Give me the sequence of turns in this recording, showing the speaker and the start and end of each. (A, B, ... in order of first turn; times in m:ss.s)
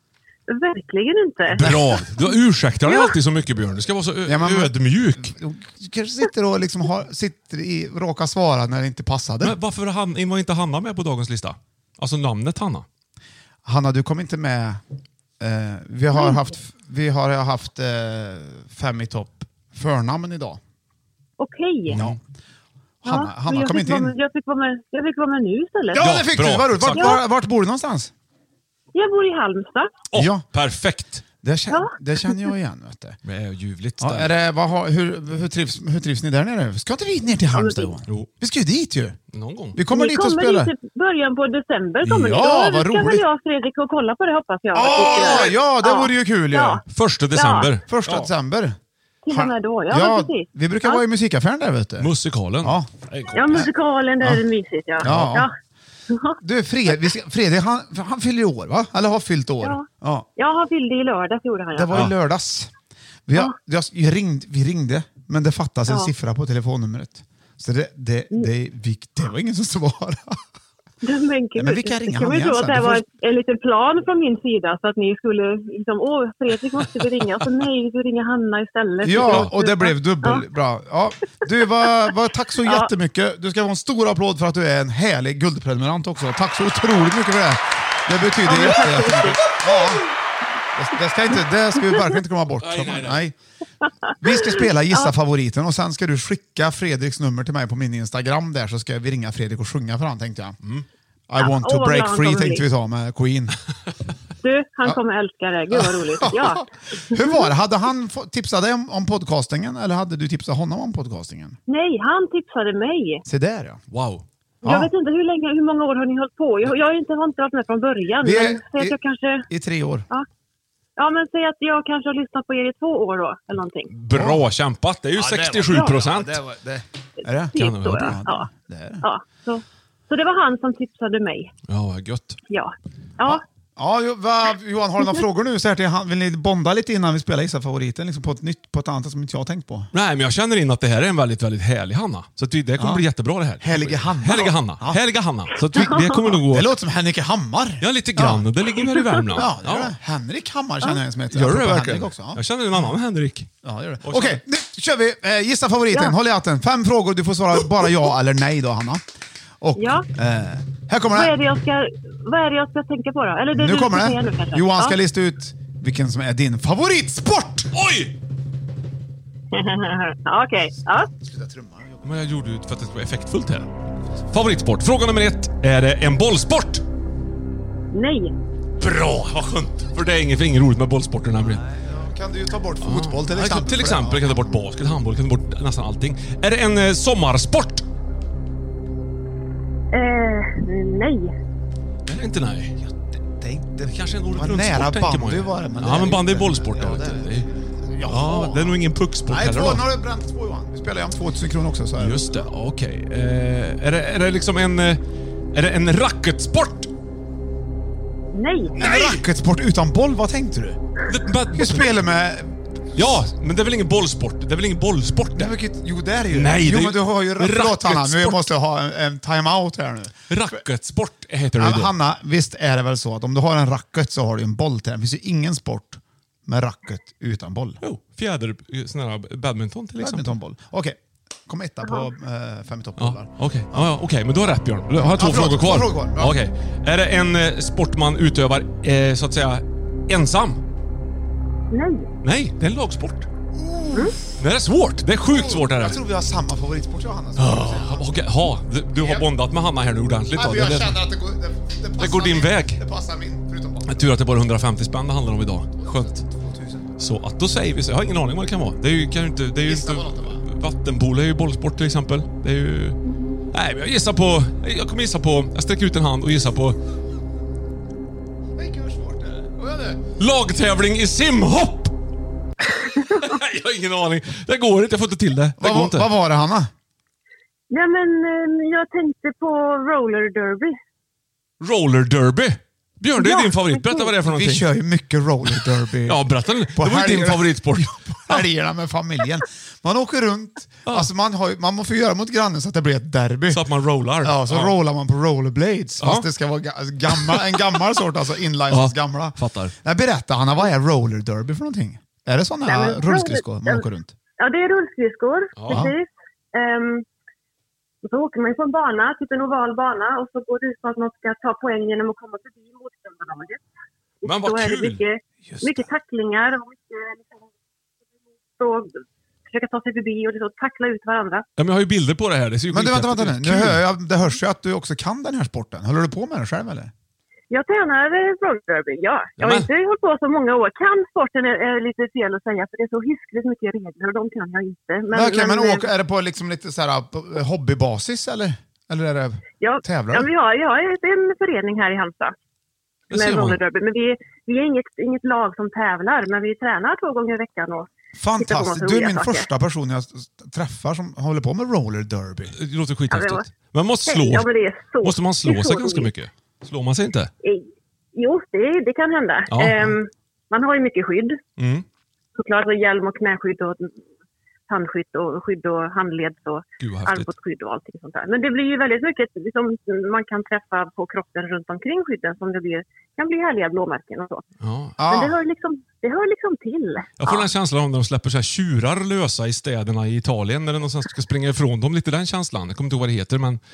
0:00.5-0:03.2 A
0:01.5-0:05.4 B
0:04.3-0:09.6 C
0:09.4-0:12.9 B
0:13.6-0:14.8 C
0:15.4-0:20.6 C
0:16.1-0:16.5 A
0:21.4-0:22.0 A
0:21.9-0:22.2 C
0:23.0-0:24.1 C
0:23.0-0:26.1 A
0:25.9-0:28.1 C
0:26.0-0:27.2 B
0:27.0-0:27.2 A
0:29.0-0:30.0 A
0:30.1-0:31.2 B
0:30.1-0:30.4 C
0:31.4-0:33.2 C
0:31.7-0:32.6 A
0:33.2-0:34.3 B
0:34.0-0:39.2 C
0:37.5-0:37.9 A
0:39.3-0:39.8 B
0:39.8-0:40.7 C
0:39.9-0:46.8 A
0:42.0-0:43.2 C
0:44.7-0:46.8 C
0:44.8-0:45.5 B
0:46.9-0:48.3 B
0:47.4-0:47.7 A
0:47.9-0:48.8 C
0:49.2-0:51.0 A
0:49.3-0:52.9 C
0:52.0-0:53.7 B
0:53.3-0:55.5 A
0:55.0-0:55.5 C
0:55.0-0:55.3 B
0:56.1-0:56.4 A
0:56.4-1:00.3 C
0:59.6-1:02.1 A
1:01.8-1:02.7 C
1:01.9-1:02.2 B
1:03.3-1:10.4 C
1:05.9-1:06.1 A
1:11.0-1:20.5 A
1:11.6-1:13.0 C
1:19.0-1:30.1 C
1:19.2-1:19.5 B
1:21.8-1:22.1 A
1:22.6-1:22.9 A
1:28.4-1:30.0 A
1:30.8-1:33.4 C
1:31.3-1:32.2 A
1:32.6-1:33.2 B
1:34.2-1:40.6 C
1:34.2-1:35.1 A
1:41.3-1:43.6 C
1:41.4-1:42.7 A
1:44.4-1:47.5 A
1:45.8-1:51.6 C
1:51.7-1:53.2 A
1:53.3-1:53.8 C
1:53.9-1:54.2 B
1:54.6-1:59.5 A
1:54.6-1:54.9 C
1:58.2-1:59.0 C
1:59.5-2:00.1 C
2:01.0-2:03.9 A
2:03.9-2:06.4 B
2:04.1-2:04.4 C
2:05.2-2:09.0 C
2:05.7-2:06.0 A
2:07.5-2:08.5 A
2:07.6-2:08.2 B
2:09.0-2:11.5 A
2:11.7-2:12.4 B
2:12.5-2:13.4 A
2:13.3-2:19.9 C
2:15.0-2:15.2 A
2:19.9-2:26.7 B
2:22.8-2:23.0 C
2:23.6-2:25.0 C
2:25.8-2:26.4 A
2:25.8-2:28.5 C
2:27.8-2:30.0 B
2:28.8-2:29.4 A
2:29.3-2:32.4 C
2:31.3-2:33.5 B
2:33.6-2:39.0 C
2:34.0-2:34.4 B
2:35.9-2:36.2 A
2:39.6-2:41.4 C
2:39.8-2:40.1 A
2:41.1-2:45.0 A
2:43.5-2:47.7 C
2:47.7-2:48.1 B
2:49.5-2:51.1 A
2:50.8-2:52.1 C
2:52.0-2:53.7 B
2:54.3-2:56.8 B
2:57.9-2:58.4 A
2:58.8-3:01.6 B
3:01.4-3:04.6 C
3:02.8-3:07.8 B
3:09.9-3:11.4 A
3:12.1-3:12.8 B
3:12.8-3:22.5 C
3:13.8-3:17.5 B
3:18.0-3:19.8 B
3:22.0-3:25.0 B
3:25.5-3:26.9 B
3:28.3-3:28.8 A
3:28.8-3:30.8 C
3:28.8-3:29.2 B
3:31.1-3:31.9 B
3:31.5-3:33.2 C
3:33.0-3:35.6 B
3:35.4-3:40.6 C
3:36.3-3:38.4 B
3:40.3-3:41.9 B
3:41.6-3:47.8 C
3:47.8-3:50.3 B
3:50.0-3:53.9 C
3:51.8-3:52.1 A
3:53.0-4:00.6 B
3:55.0-3:56.4 C
4:01.7-4:02.1 A
4:02.2-4:03.3 B
4:03.5-4:04.2 C
4:04.4-4:06.0 B
4:05.3-4:08.2 C
4:07.4-4:11.0 B
4:08.9-4:09.3 C
4:10.3-4:14.0 C
4:12.0-4:12.8 B
4:13.9-4:16.2 B
4:15.8-4:16.9 C
4:17.0-4:23.0 B
4:19.6-4:20.4 C
4:23.5-4:26.8 B
4:28.6-4:30.0 C
4:30.2-4:31.9 B
4:33.0-4:36.1 B
4:35.6-4:36.7 C
4:37.7-4:40.8 A
4:41.6-4:44.7 B
4:43.2-4:44.1 A
4:44.2-4:53.6 C
4:45.5-4:48.4 B
4:53.5-4:54.8 B
4:54.2-5:04.1 C
4:56.0-4:56.3 B
4:57.2-4:57.5 B
4:58.7-4:59.8 B
5:02.7-5:03.9 A
5:04.4-5:07.0 A
5:05.6-5:05.9 B
5:08.0-5:13.6 A
5:14.2-5:17.5 A
5:14.2-5:15.0 B
5:15.4-5:15.8 C
5:18.6-5:18.9 A
5:19.5-5:21.4 A
5:21.6-5:23.8 B
5:22.7-5:26.9 C
5:27.5-5:35.9 A
5:29.4-5:29.7 B
5:35.1-5:40.3 C
5:39.6-5:42.4 A
5:43.1-5:43.6 B
5:43.1-5:49.5 A
5:48.2-5:52.6 C
5:52.5-5:54.5 B
5:53.1-5:53.5 A
5:54.1-5:56.1 A
5:55.0-5:57.3 B
5:57.4-6:01.4 A
5:59.5-6:00.0 B
6:01.6-6:01.9 B
6:02.4-6:04.0 A
6:04.7-6:14.4 A
6:06.8-6:07.3 B
6:14.6-6:15.0 B
6:15.0-6:15.4 C
6:15.0-6:17.5 A
6:17.2-6:23.6 B